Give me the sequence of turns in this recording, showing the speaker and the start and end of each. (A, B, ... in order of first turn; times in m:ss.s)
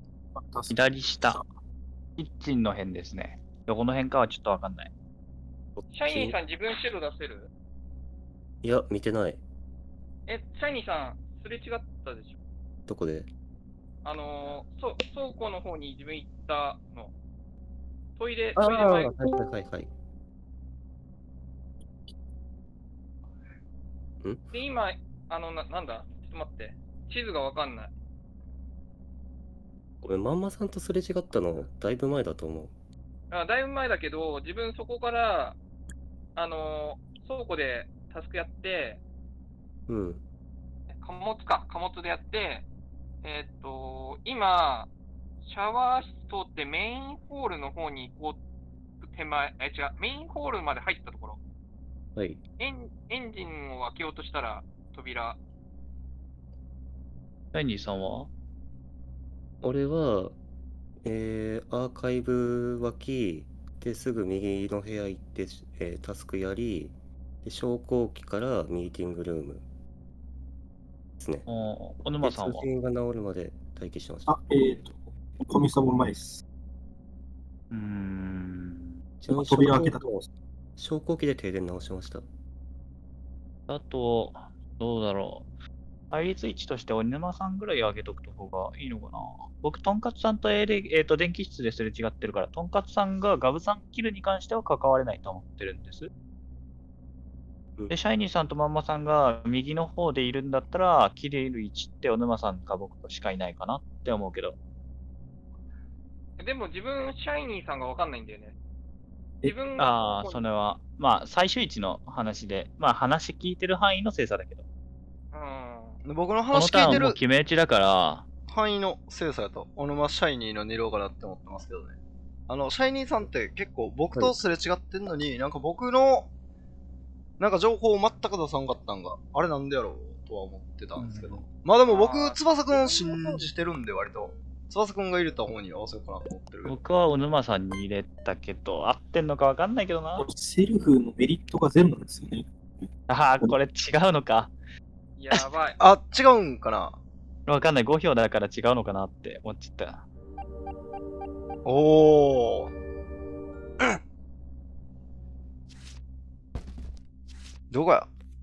0:00.3-0:01.4 A
0:00.7-0:01.4 B
0:02.2-0:04.9 B
0:05.8-0:06.4 C
0:05.9-0:07.5 D
0:08.6-0:09.4 C
0:10.3-0:12.4 D
0:12.9-0:13.3 C
0:14.0-0:17.1 D
0:18.2-0:19.2 D
0:18.6-0:19.9 C
0:24.5-0:27.9 D
0:30.0-0:32.7 C
0:33.3-0:35.6 D
0:36.4-0:39.0 D
0:39.9-0:40.2 C
0:41.0-0:42.6 D
0:43.2-0:44.9 D
0:45.4-0:48.4 D
0:49.0-0:51.4 D
0:52.2-0:52.4 C
0:52.6-0:55.4 D
0:57.5-0:58.3 B
0:59.6-1:00.4 C
1:01.0-1:09.6 C
1:11.2-1:11.5 C
1:11.5-1:12.6 B
1:12.2-1:14.3 C
1:14.3-1:16.4 A
1:17.7-1:18.9 B
1:19.2-1:22.2 C
1:19.3-1:20.1 A
1:23.7-1:25.5 B
1:26.1-1:36.1 B
1:37.9-1:44.6 B
1:46.4-1:48.5 D
1:49.4-1:50.4 D
1:49.8-1:54.6 B
1:55.3-1:56.0 D
1:56.0-1:57.2 E
1:56.5-1:58.2 B
1:58.5-2:02.0 E
2:02.5-2:06.3 E
2:07.4-2:16.8 E
2:11.0-2:11.4 B
2:11.9-2:12.4 D
2:16.6-2:20.2 B
2:20.2-2:22.5 A
2:23.1-2:24.5 B
2:25.2-2:25.8 D
2:25.8-2:26.9 E
2:27.5-2:30.0 B
2:31.6-2:32.7 E
2:37.7-2:38.1 E